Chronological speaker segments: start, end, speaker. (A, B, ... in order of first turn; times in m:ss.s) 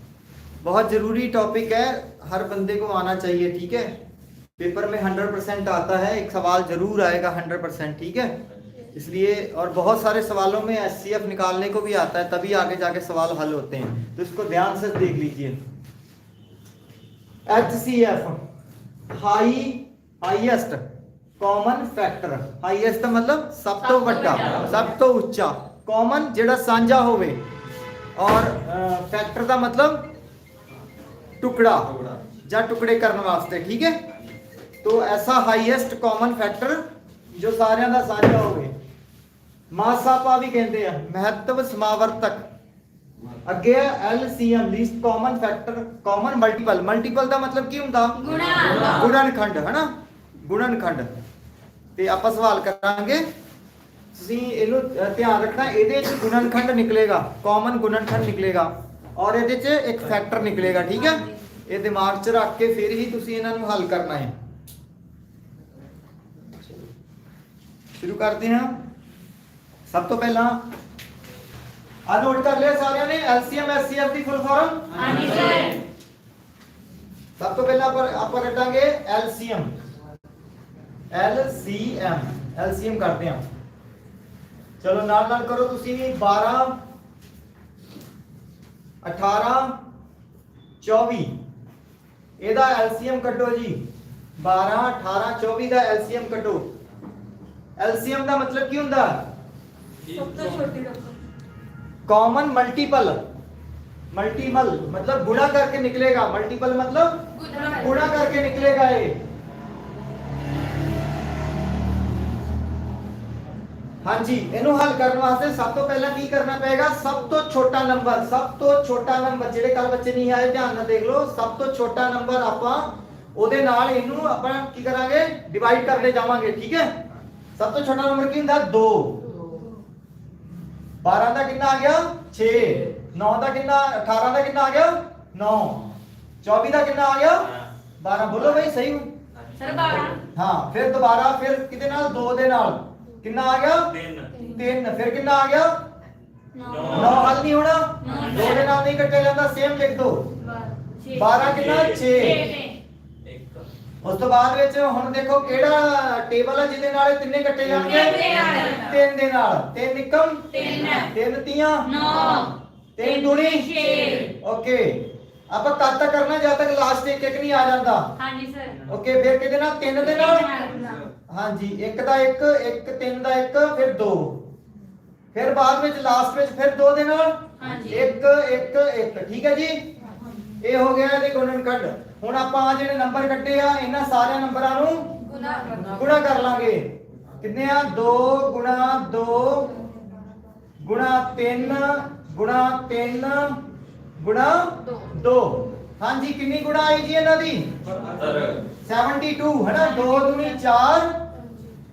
0:00.6-0:03.9 A
0:04.6-0:08.3 A
0:08.9-0:15.6 A
0:17.5-0:18.4 A
0:19.1-0:20.8 A
0:21.4-0:27.4 A
0:23.8-0:24.9 B
0:28.2-0:30.0 A
0:31.4-0:34.0 A
0:34.8-0:38.7 A
0:39.7-0:42.5 A
0:43.4-0:51.1 A
0:48.2-0:49.1 B
0:52.0-0:53.2 A
0:54.1-1:04.3 A
1:08.0-1:08.8 A
1:09.9-1:10.6 A
1:12.1-1:15.5 A
1:15.0-1:15.8 B
1:17.4-1:19.7 A
1:21.1-1:23.4 A
1:24.8-1:26.8 A
1:29.0-1:29.8 A
1:30.8-1:31.3 A
1:32.4-1:33.8 A
1:34.4-1:36.7 A
1:37.8-1:39.2 A
1:40.2-1:41.2 B
1:42.1-1:43.2 A
1:44.1-1:49.2 A
1:47.3-1:48.1 B
1:54.0-2:06.9 A
2:07.6-2:09.2 A
2:11.0-2:15.9 A
2:16.4-2:19.1 A
2:19.4-2:19.9 C
2:19.6-2:20.2 B
2:20.3-2:25.8 A
2:24.0-2:24.3 C
2:26.5-2:27.3 B
2:26.7-2:27.2 C
2:26.9-2:30.2 A
2:28.0-2:28.7 B
2:30.4-2:31.3 B
2:31.1-2:32.4 A
2:31.4-2:32.0 C
2:32.1-2:32.8 B
2:33.2-2:33.6 C
2:34.0-2:41.9 A
2:37.7-2:38.9 B
2:40.5-2:41.1 B
2:41.9-2:44.3 B
2:43.0-2:48.1 A
2:48.2-2:48.8 B
2:48.8-2:50.5 A
2:50.1-2:51.0 B
2:51.3-2:54.4 A
2:55.3-2:59.8 A
2:57.6-2:58.1 B
3:00.6-3:05.2 A
3:05.3-3:05.9 B
3:05.9-3:06.9 A
3:07.4-3:09.8 A
3:10.8-3:13.6 A
3:14.2-3:17.7 A
3:18.2-3:18.6 C
3:18.8-3:21.2 A